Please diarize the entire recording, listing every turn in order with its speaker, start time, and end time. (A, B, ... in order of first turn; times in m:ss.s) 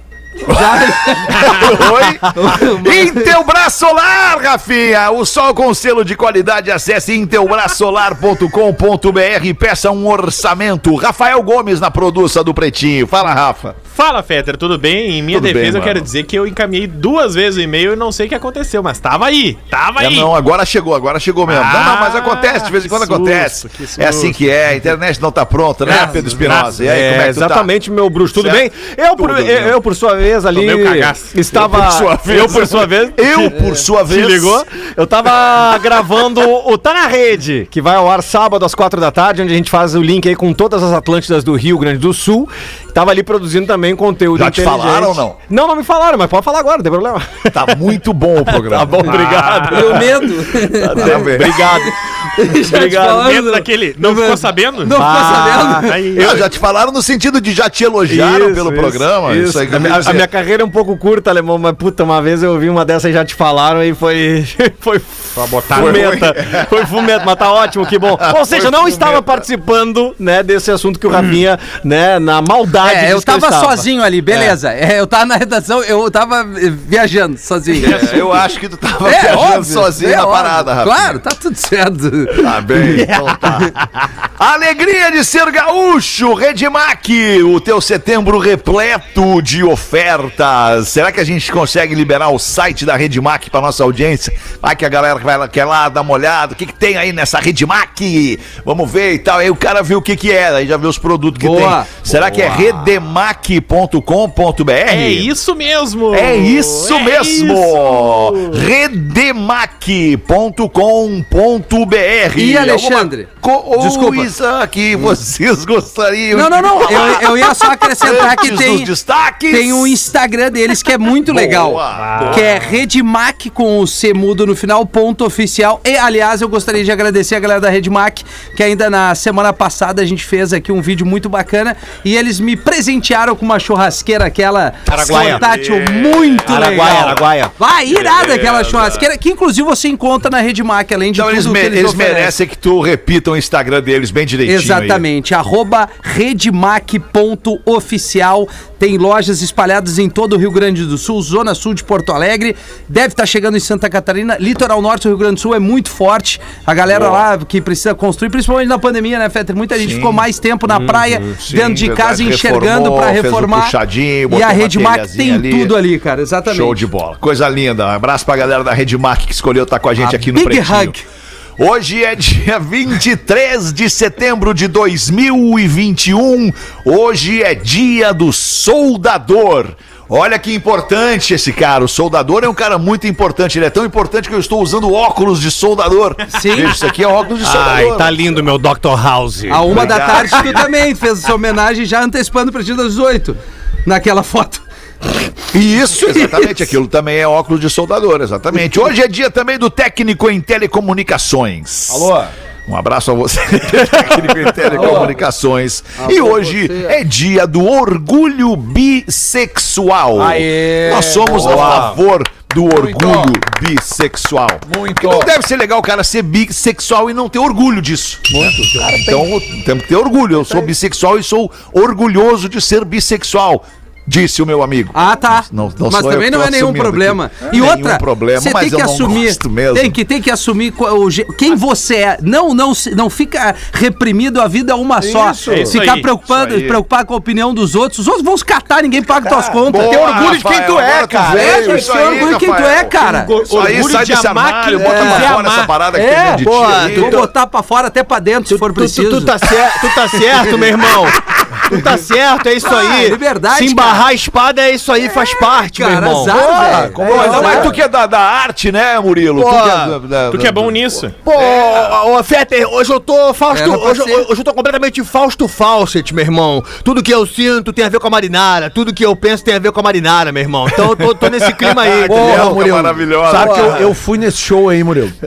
0:00.4-0:03.3 A
0:00.5-0:13.8 B
0:13.9-0:20.3 C
0:15.3-0:16.1 B
0:20.0-0:29.8 B
0:21.4-0:24.6 C
0:25.8-0:26.8 C
0:25.8-0:26.3 A
0:26.8-0:52.0 D
0:30.5-0:31.4 C
0:31.5-0:34.6 B
0:44.3-0:45.4 B
0:47.5-0:49.4 B
0:49.0-0:50.0 C
0:49.7-0:56.1 A
0:50.9-0:51.8 B
0:52.6-0:53.3 D
0:52.9-0:55.1 C
0:54.9-0:56.0 D
0:55.8-0:56.4 C
0:56.1-1:00.3 B
0:58.1-1:14.6 D
1:05.4-1:06.2 C
1:05.7-1:06.8 B
1:08.0-1:09.4 B
1:12.8-1:18.2 A
1:17.7-1:21.2 B
1:17.8-1:18.2 C
1:19.0-1:23.7 A
1:22.3-1:45.3 B
1:41.4-1:41.9 A
1:44.9-1:48.6 C
1:46.1-1:59.9 B
1:52.4-1:54.3 A
1:56.3-1:58.9 A
1:59.5-2:22.3 A
2:01.2-2:02.6 B
2:01.9-2:02.4 C
2:14.9-2:15.4 D
2:14.9-2:17.4 B
2:16.4-2:17.5 D
2:17.9-2:19.0 B
2:21.1-2:25.0 B
2:24.4-2:43.8 A
2:36.9-2:37.2 B
2:39.7-2:40.2 B
2:41.4-2:45.8 B
2:44.3-2:46.8 A
2:46.5-2:50.9 B
2:50.0-2:51.0 A
2:51.6-3:08.5 B
3:06.3-3:06.7 A
3:07.4-3:10.0 D
3:09.5-3:15.1 A
3:09.6-3:10.7 B
3:15.5-3:22.1 B
3:16.1-3:16.6 A
3:21.9-3:22.3 E
3:22.7-3:50.0 B
3:24.7-3:25.2 E
3:24.8-3:25.1 A
3:26.0-3:27.0 A
3:30.1-3:32.0 E
3:32.6-3:33.3 E
3:34.6-3:35.3 E
3:38.3-3:39.3 E
3:40.4-3:40.7 E
3:44.9-4:00.0 A
3:55.0-3:55.8 E
3:55.4-3:56.1 C
3:56.2-3:56.8 B
3:59.2-4:01.9 E
3:59.7-4:07.3 B
4:01.3-4:03.3 A
4:03.3-4:05.7 C
4:04.8-4:05.3 D
4:04.9-4:05.2 A
4:05.9-4:09.5 A
4:06.4-4:07.3 D
4:08.5-4:17.5 D
4:10.1-4:10.8 A
4:12.6-4:14.1 A
4:15.5-4:17.7 A
4:16.3-4:17.8 E
4:17.0-4:21.9 B
4:19.3-4:20.0 D
4:20.3-4:21.1 C
4:21.2-4:32.7 D
4:23.5-4:24.3 A
4:30.8-4:33.9 B
4:32.1-4:35.2 E
4:33.3-4:33.8 D